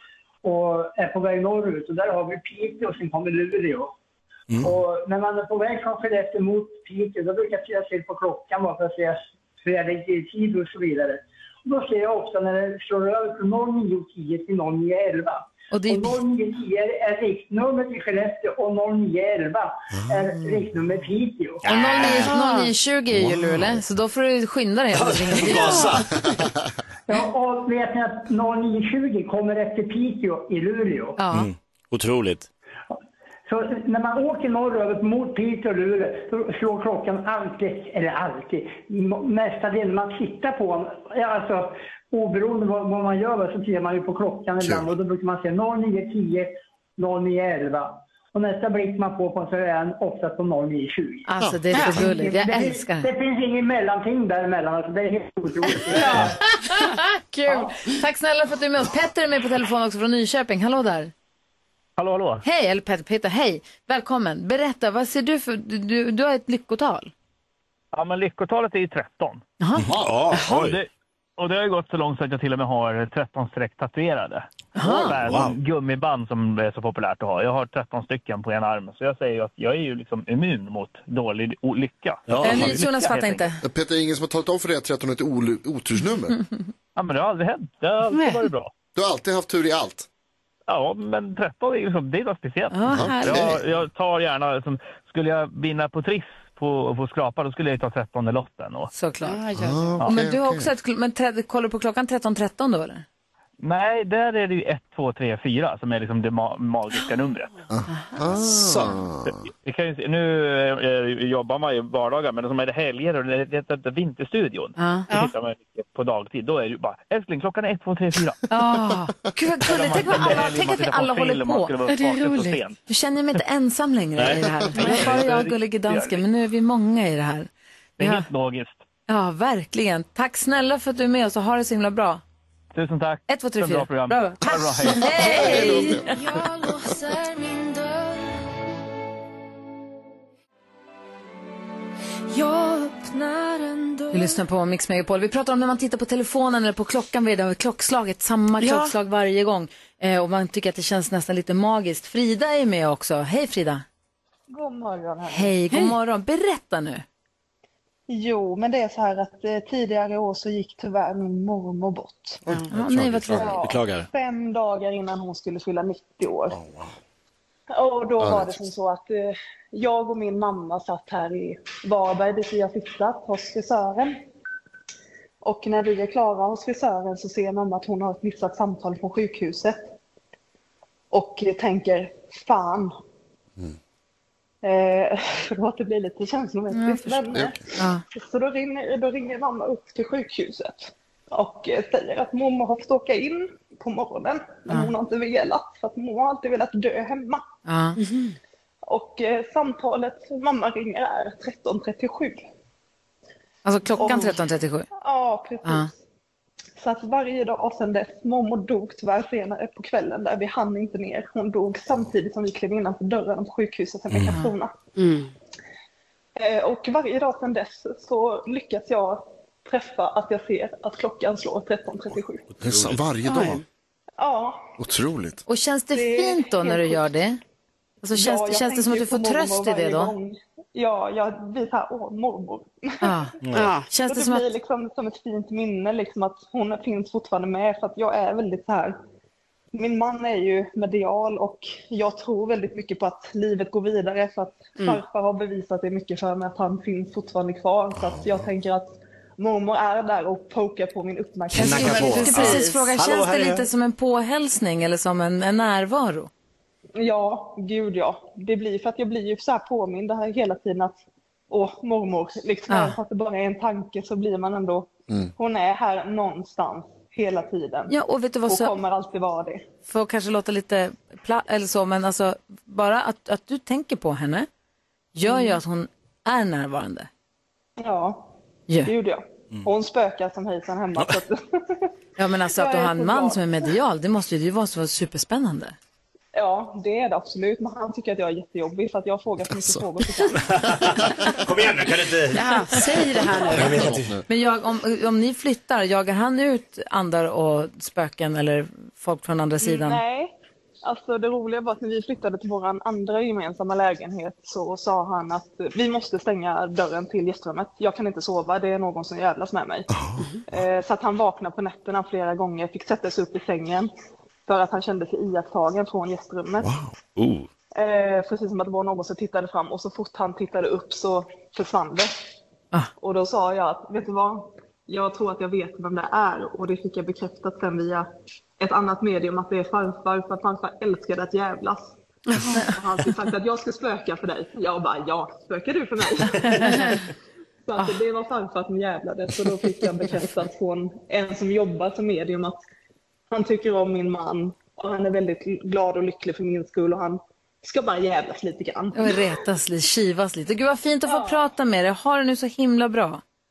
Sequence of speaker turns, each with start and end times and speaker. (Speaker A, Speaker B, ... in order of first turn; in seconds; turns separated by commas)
Speaker A: 0.4-3.9, Speaker A: 4.6-21.6, Speaker B: 15.7-16.2, Speaker C: 21.6-22.3, Speaker B: 21.6-25.9, Speaker D: 22.1-22.7, Speaker C: 23.1-23.8, Speaker C: 24.9-26.3, Speaker D: 25.5-26.0, Speaker A: 27.1-31.2, Speaker B: 31.2-31.5, Speaker C: 31.3-32.5, Speaker A: 33.5-56.4, Speaker E: 44.6-44.9, Speaker B: 51.3-53.1, Speaker B: 55.8-61.1, Speaker F: 62.0-62.4, Speaker B: 62.4-67.1, Speaker F: 67.9-69.4, Speaker B: 69.6-69.9, Speaker E: 69.8-70.1, Speaker C: 69.9-70.8, Speaker F: 70.3-83.5, Speaker B: 74.7-75.2, Speaker C: 75.1-75.6, Speaker C: 82.3-82.8, Speaker B: 82.4-83.6, Speaker E: 83.6-86.4, Speaker F: 87.0-88.7, Speaker D: 88.1-88.5, Speaker E: 88.9-90.1, Speaker F: 90.7-98.9, Speaker B: 92.7-93.5, Speaker E: 92.9-93.6, Speaker B: 98.9-99.4, Speaker D: 99.2-100.0, Speaker E: 99.5-100.7, Speaker B: 100.0-103.0, Speaker F: 103.6-107.5, Speaker E: 107.7-109.4, Speaker B: 107.9-108.2, Speaker F: 108.6-118.4, Speaker B: 114.8-115.1, Speaker D: 115.1-115.3, Speaker B: 118.5-121.7, Speaker F: 119.6-122.8, Speaker D: 121.9-122.6, Speaker B: 122.9-127.5, Speaker C: 124.2-124.5, Speaker F: 124.7-126.2, Speaker F: 128.0-128.8, Speaker B: 128.0-128.3, Speaker B: 129.1-132.2, Speaker F: 132.7-135.6, Speaker B: 133.3-136.2, Speaker E: 135.0-136.9, Speaker G: 135.2-138.4, Speaker G: 142.3-144.4, Speaker B: 144.1-153.8, Speaker D: 148.6-148.9, Speaker H: 154.5-155.5, Speaker B: 155.3-157.0, Speaker H: 158.1-162.4, Speaker B: 162.7-163.6, Speaker C: 162.7-164.1, Speaker H: 163.3-166.6, Speaker E: 166.5-166.9, Speaker H: 167.7-174.2, Speaker E: 168.2-168.6, Speaker H: 175.4-179.8, Speaker H: 181.1-182.9, Speaker H: 184.6-197.4, Speaker B: 186.7-187.2, Speaker E: 187.3-187.6, Speaker B: 187.7-188.0, Speaker B: 197.7-198.0, Speaker D: 198.0-198.3, Speaker H: 198.9-202.4, Speaker B: 203.6-204.9, Speaker H: 204.0-204.4, Speaker H: 205.0-205.9, Speaker H: 206.8-214.7, Speaker D: 215.0-215.3, Speaker H: 216.3-222.5, Speaker C: 222.6-223.0, Speaker E: 222.6-223.6, Speaker D: 223.2-223.6, Speaker H: 224.2-224.7, Speaker E: 224.8-225.4, Speaker B: 225.5-227.4, Speaker H: 225.9-227.0, Speaker B: 228.0-230.1, Speaker H: 228.1-233.1, Speaker B: 233.0-233.3, Speaker C: 233.4-233.8, Speaker D: 233.5-233.9, Speaker B: 233.9-234.5, Speaker H: 234.1-239.0, Speaker H: 239.7-252.3, Speaker E: 247.9-248.5, Speaker C: 251.5-253.7, Speaker B: 251.5-256.3, Speaker D: 252.2-252.8, Speaker H: 257.0-261.0, Speaker H: 261.5-267.9, Speaker B: 262.7-263.0, Speaker B: 267.9-268.8, Speaker H: 268.5-269.6, Speaker B: 269.9-274.5, Speaker B: 275.1-277.1, Speaker H: 277.8-278.3, Speaker B: 278.7-278.9, Speaker H: 278.8-281.9, Speaker C: 280.9-281.2, Speaker B: 282.2-285.8, Speaker H: 282.5-283.4, Speaker H: 286.3-290.7, Speaker C: 290.4-292.8, Speaker D: 292.3-293.9, Speaker E: 293.2-294.2, Speaker C: 293.4-294.2, Speaker B: 294.3-300.0, Speaker H: 299.6-309.9, Speaker E: 309.9-310.3, Speaker H: 310.5-313.9, Speaker H: 314.4-316.7, Speaker E: 316.6-316.9, Speaker C: 317.1-317.5, Speaker H: 317.7-322.1, Speaker H: 323.0-328.1, Speaker H: 328.6-331.9, Speaker D: 332.3-332.7, Speaker H: 332.6-337.0, Speaker H: 337.7-342.6, Speaker H: 343.3-349.2, Speaker B: 348.9-353.2, Speaker H: 351.1-351.4